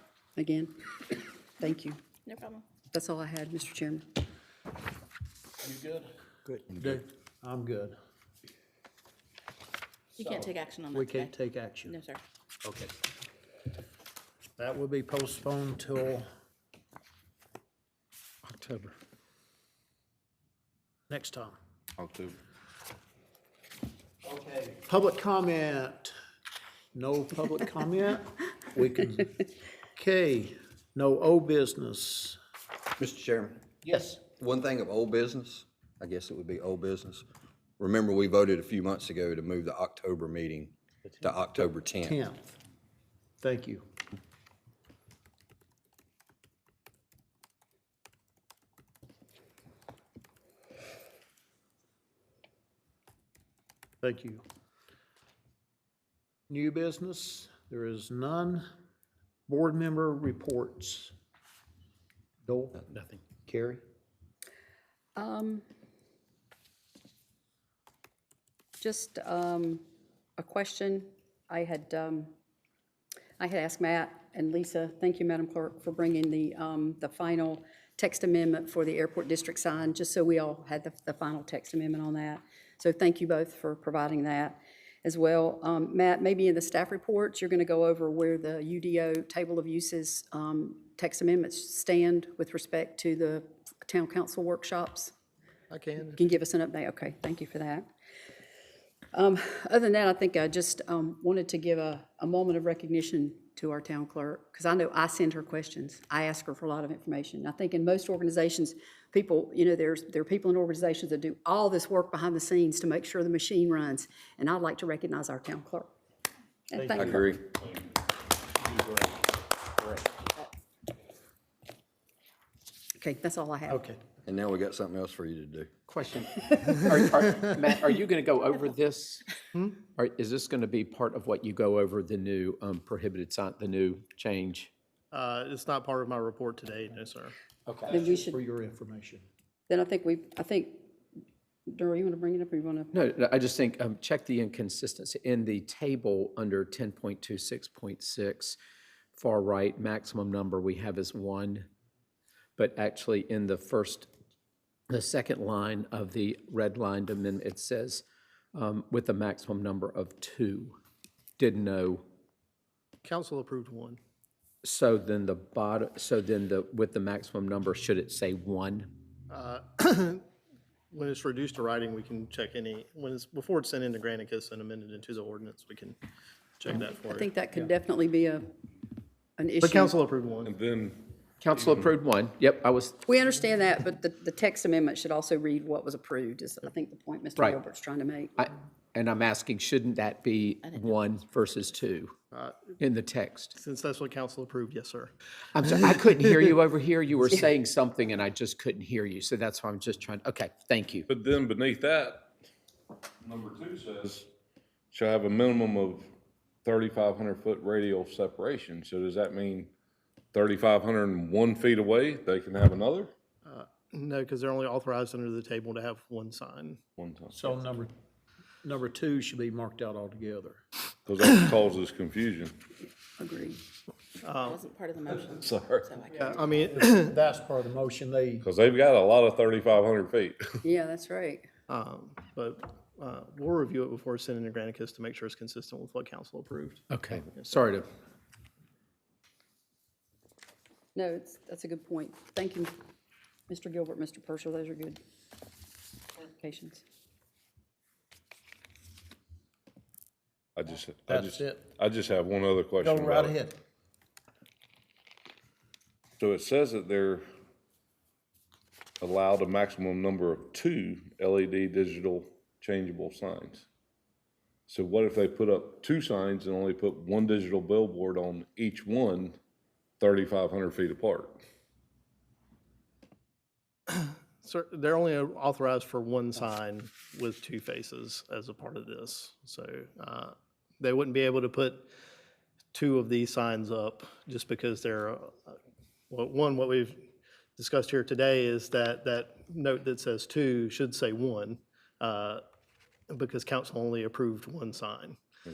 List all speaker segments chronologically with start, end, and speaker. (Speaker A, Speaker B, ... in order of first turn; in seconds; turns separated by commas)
Speaker A: 0.3-0.8, Speaker A: 1.6-2.0, Speaker B: 2.3-2.6, Speaker A: 2.9-4.1, Speaker C: 5.6-8.0, Speaker C: 10.2-12.0, Speaker B: 10.2-11.3, Speaker B: 11.9-12.2, Speaker C: 14.6-16.3, Speaker D: 18.5-18.9, Speaker C: 18.6-18.9, Speaker C: 21.1-21.6, Speaker D: 22.0-22.3, Speaker C: 24.3-26.1, Speaker C: 26.9-32.4, Speaker E: 33.0-33.6, Speaker C: 33.8-34.2, Speaker E: 34.4-37.2, Speaker E: 37.8-42.2, Speaker C: 41.6-42.6, Speaker C: 43.4-43.9, Speaker C: 54.0-54.4, Speaker C: 56.5-58.7, Speaker C: 59.5-61.1, Speaker C: 62.5-63.8, Speaker A: 65.2-65.6, Speaker A: 68.8-69.8, Speaker A: 70.4-72.3, Speaker A: 73.4-95.1, Speaker F: 95.7-96.2, Speaker A: 96.1-97.9, Speaker A: 99.1-115.9, Speaker A: 116.7-117.2, Speaker C: 116.8-117.3, Speaker E: 117.0-117.5, Speaker D: 118.6-119.1, Speaker A: 123.0-123.8, Speaker C: 123.7-124.0, Speaker E: 124.2-125.7, Speaker G: 125.9-129.2, Speaker G: 129.9-134.7, Speaker F: 135.1-137.3, Speaker G: 137.7-137.9, Speaker C: 137.8-139.2, Speaker A: 137.9-138.4, Speaker A: 139.7-140.9, Speaker A: 141.7-142.9, Speaker G: 142.9-148.6, Speaker G: 149.1-151.7, Speaker G: 152.6-154.1, Speaker G: 154.9-158.0, Speaker G: 158.5-160.8, Speaker G: 161.4-162.0, Speaker F: 163.0-164.0, Speaker G: 164.6-168.9, Speaker F: 169.3-170.2, Speaker F: 170.9-176.0, Speaker F: 176.6-177.3, Speaker A: 177.0-178.5, Speaker A: 179.4-179.9, Speaker F: 179.6-180.5, Speaker D: 180.4-181.9, Speaker G: 181.4-183.0, Speaker A: 183.1-188.5, Speaker G: 188.4-192.1, Speaker F: 192.3-192.7, Speaker G: 192.8-193.5, Speaker F: 193.5-195.1, Speaker G: 195.5-201.1, Speaker D: 201.1-202.3, Speaker D: 203.2-204.3, Speaker D: 204.9-206.1, Speaker D: 206.6-209.7, Speaker D: 210.3-213.1, Speaker F: 213.4-216.8, Speaker D: 217.0-217.4, Speaker C: 217.3-217.9, Speaker C: 218.6-220.6, Speaker D: 221.1-222.5, Speaker A: 223.2-223.6, Speaker F: 224.2-224.6, Speaker B: 224.4-226.4, Speaker D: 225.1-225.9, Speaker F: 226.1-227.2, Speaker C: 226.6-228.4, Speaker D: 228.4-230.4, Speaker A: 230.6-231.5, Speaker F: 231.7-237.6, Speaker G: 236.9-237.9, Speaker A: 240.9-242.7, Speaker A: 243.5-245.0, Speaker A: 246.2-246.8, Speaker D: 250.6-253.4, Speaker C: 251.1-251.7, Speaker C: 252.8-253.6, Speaker D: 256.2-257.2, Speaker D: 259.0-263.6, Speaker D: 264.7-269.4, Speaker D: 270.0-271.4, Speaker F: 273.9-281.9, Speaker F: 282.7-285.6, Speaker F: 286.1-292.4, Speaker F: 293.1-295.2